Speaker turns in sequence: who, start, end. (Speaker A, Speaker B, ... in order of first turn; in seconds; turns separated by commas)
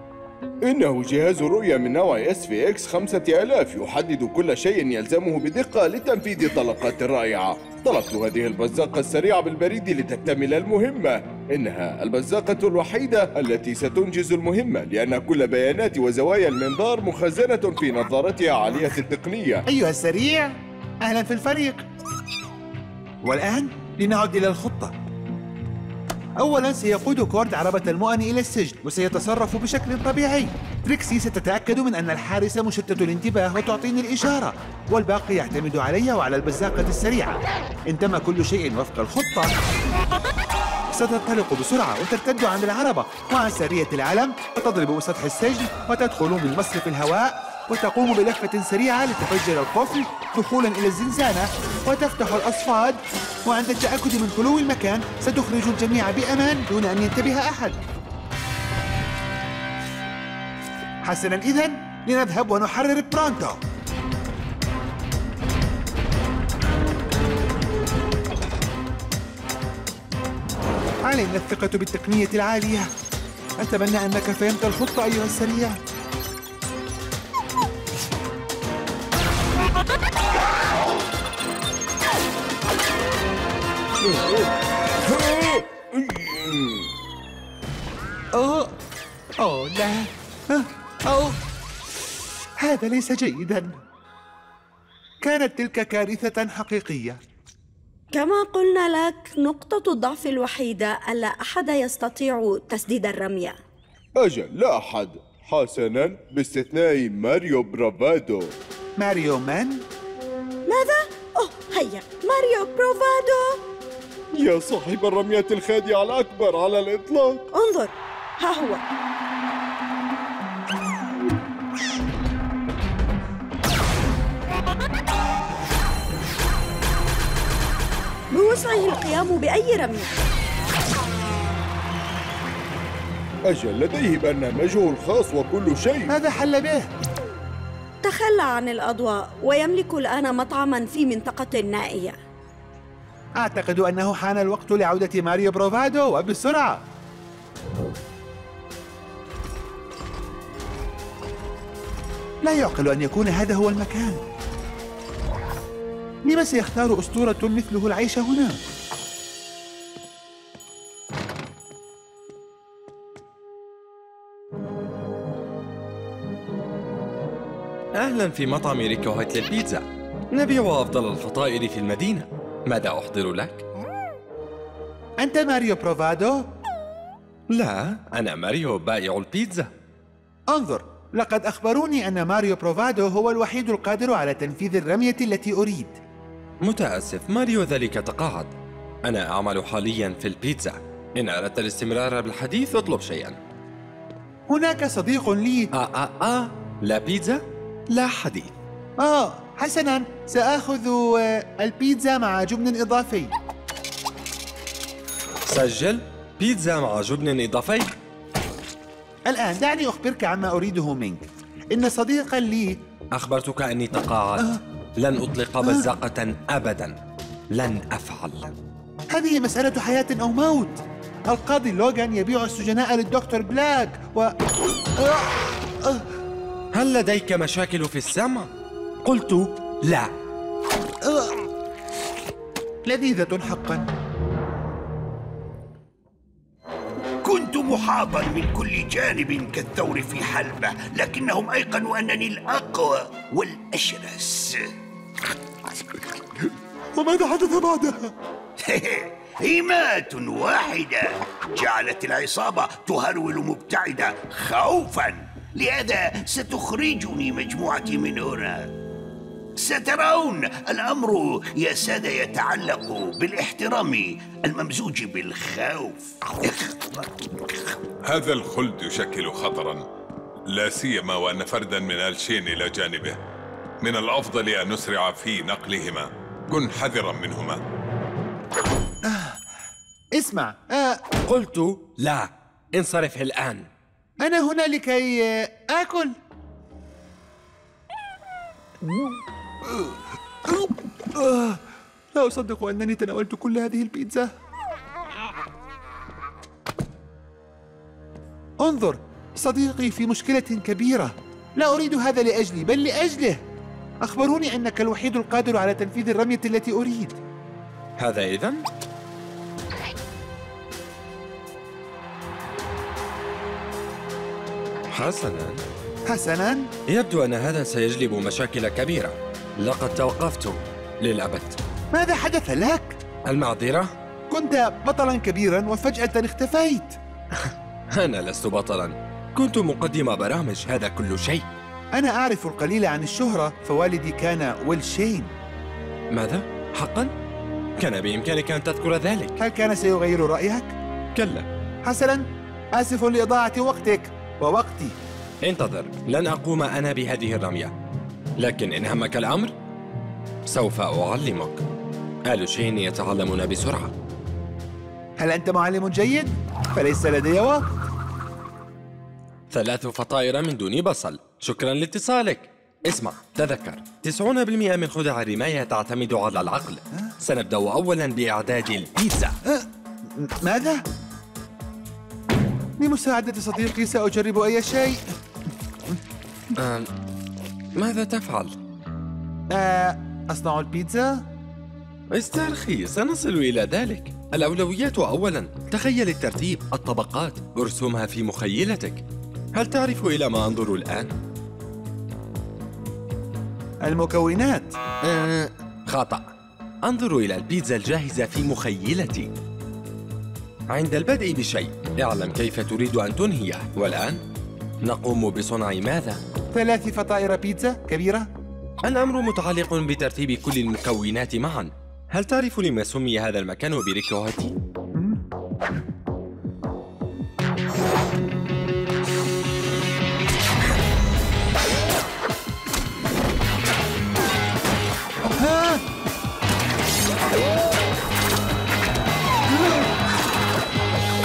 Speaker A: 0.7-19.6, Speaker B: 19.7-21.9, Speaker B: 23.2-25.0, Speaker B: 26.4-39.5, Speaker B: 40.9-57.8, Speaker B: 61.0-63.6, Speaker B: 71.0-72.9, Speaker B: 73.6-75.8, Speaker A: 84.0-84.4, Speaker A: 85.1-86.9, Speaker B: 88.3-88.7, Speaker B: 89.4-91.4, Speaker B: 92.6-93.8, Speaker B: 95.2-97.2, Speaker C: 98.1-103.6, Speaker A: 104.2-108.5, Speaker B: 109.0-109.8, Speaker C: 110.7-113.6, Speaker A: 114.3-117.5, Speaker C: 117.5-118.8, Speaker C: 128.3-130.1, Speaker A: 133.5-136.1, Speaker B: 136.1-136.9, Speaker C: 138.0-142.2, Speaker B: 143.4-146.8, Speaker B: 152.4-154.2, Speaker B: 156.3-158.6, Speaker D: 167.9-173.7, Speaker B: 175.2-176.5, Speaker D: 177.5-179.7, Speaker B: 180.5-186.0, Speaker D: 186.6-188.5, Speaker D: 189.1-193.4, Speaker B: 194.5-195.7, Speaker D: 195.7-198.6, Speaker B: 199.0-203.4, Speaker D: 205.5-207.9, Speaker B: 209.3-212.8, Speaker D: 213.2-217.0, Speaker B: 215.6-215.9, Speaker D: 217.5-218.5, Speaker B: 219.1-224.3, Speaker B: 225.0-226.1, Speaker D: 226.7-228.5, Speaker D: 229.0-230.1, Speaker B: 231.0-231.4, Speaker B: 232.9-233.9, Speaker E: 237.2-244.7, Speaker B: 247.0-248.1, Speaker E: 248.6-258.7, Speaker E: 259.6-267.6, Speaker F: 268.0-269.8, Speaker F: 270.5-273.2, Speaker F: 273.8-277.6, Speaker B: 279.0-279.4, Speaker B: 280.1-281.0, Speaker D: 281.2-283.7, Speaker B: 284.2-286.2, Speaker B: 288.9-294.3, Speaker B: 298.6-303.4, Speaker B: 304.0-307.2, Speaker D: 308.0-308.7, Speaker D: 314.9-315.6, Speaker B: 316.1-316.7, Speaker D: 316.9-321.6, Speaker B: 321.9-323.0, Speaker D: 323.2-323.9, Speaker B: 324.3-327.0, Speaker D: 327.4-331.5, Speaker B: 331.9-335.3, Speaker D: 336.1-337.1, Speaker D: 337.8-339.4, Speaker B: 339.4-340.8, Speaker D: 341.1-341.5, Speaker B: 341.9-345.0, Speaker D: 345.4-347.7, Speaker D: 348.4-349.5, Speaker D: 350.5-351.6, Speaker D: 352.3-353.9, Speaker B: 355.2-357.7, Speaker D: 359.5-369.4, Speaker B: 369.4-370.8, Speaker B: 372.8-375.1, Speaker D: 376.6-376.9, Speaker D: 377.8-378.6, Speaker B: 379.5-381.2, Speaker D: 382.1-389.0, Speaker D: 389.6-391.1, Speaker B: 393.8-394.8, Speaker D: 395.0-396.3, Speaker D: 396.8-399.3, Speaker D: 400.7-404.2, Speaker D: 404.8-406.2, Speaker B: 406.5-408.3, Speaker D: 408.8-414.6, Speaker B: 414.9-415.2, Speaker B: 425.4-425.8, Speaker B: 429.5-429.9